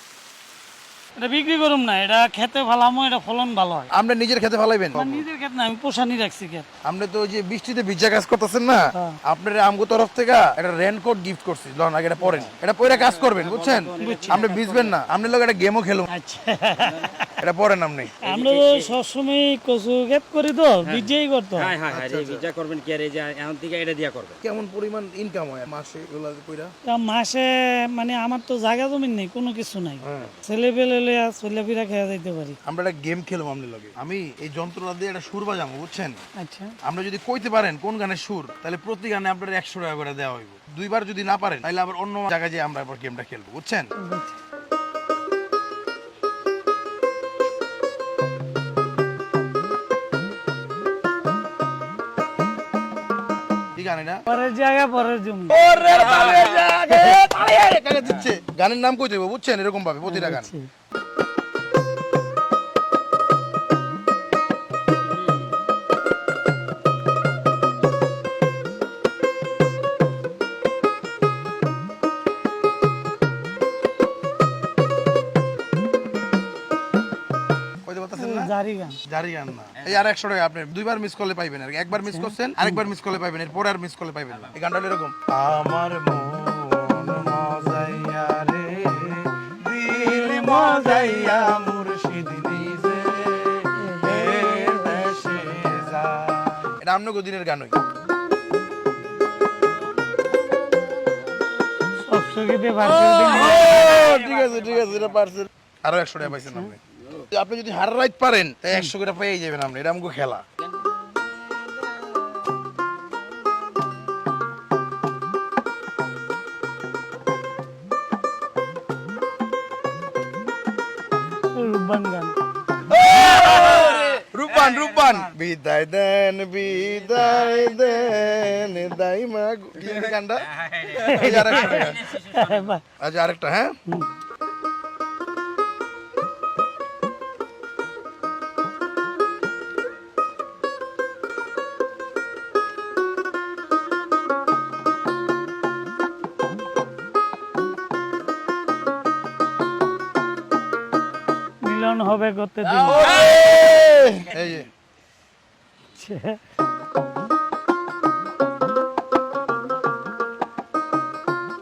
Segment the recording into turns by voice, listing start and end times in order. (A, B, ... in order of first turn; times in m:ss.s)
0:01.2-0:03.9 A
0:03.9-0:05.2 B
0:05.0-0:06.7 A
0:06.8-0:16.1 B
0:12.3-0:15.0 C
0:14.0-0:14.5 A
0:16.1-0:17.4 A
0:16.8-0:17.2 C
0:17.4-0:18.2 B
0:18.2-0:21.8 A
0:18.2-0:19.0 C
0:20.8-0:24.4 C
0:21.9-0:22.5 B
0:24.4-0:26.7 B
0:26.9-0:32.6 A
0:30.0-0:30.4 B
0:32.7-0:36.2 B
0:36.4-0:36.8 A
0:36.8-0:43.9 B
0:44.0-0:44.4 A
0:53.8-0:54.2 B
0:54.3-0:55.6 A
0:55.5-1:00.5 B
0:55.9-0:56.8 C
1:00.0-1:00.7 A
1:17.8-1:18.5 B
1:18.2-1:19.0 A
1:19.1-1:37.8 B
1:19.8-1:20.0 C
1:22.0-1:22.8 A
1:33.8-1:35.0 A
1:42.1-1:43.7 A
1:42.8-1:50.4 B
1:44.0-1:45.0 C
1:46.3-1:46.7 A
2:01.5-2:02.4 A
2:02.9-2:12.2 B
2:03.5-2:05.2 C
2:09.9-2:11.1 C
2:10.9-2:12.8 A
2:11.7-2:12.5 C
2:13.0-2:13.7 B
2:31.6-2:33.3 A
2:32.6-2:34.7 B
2:36.0-2:36.4 A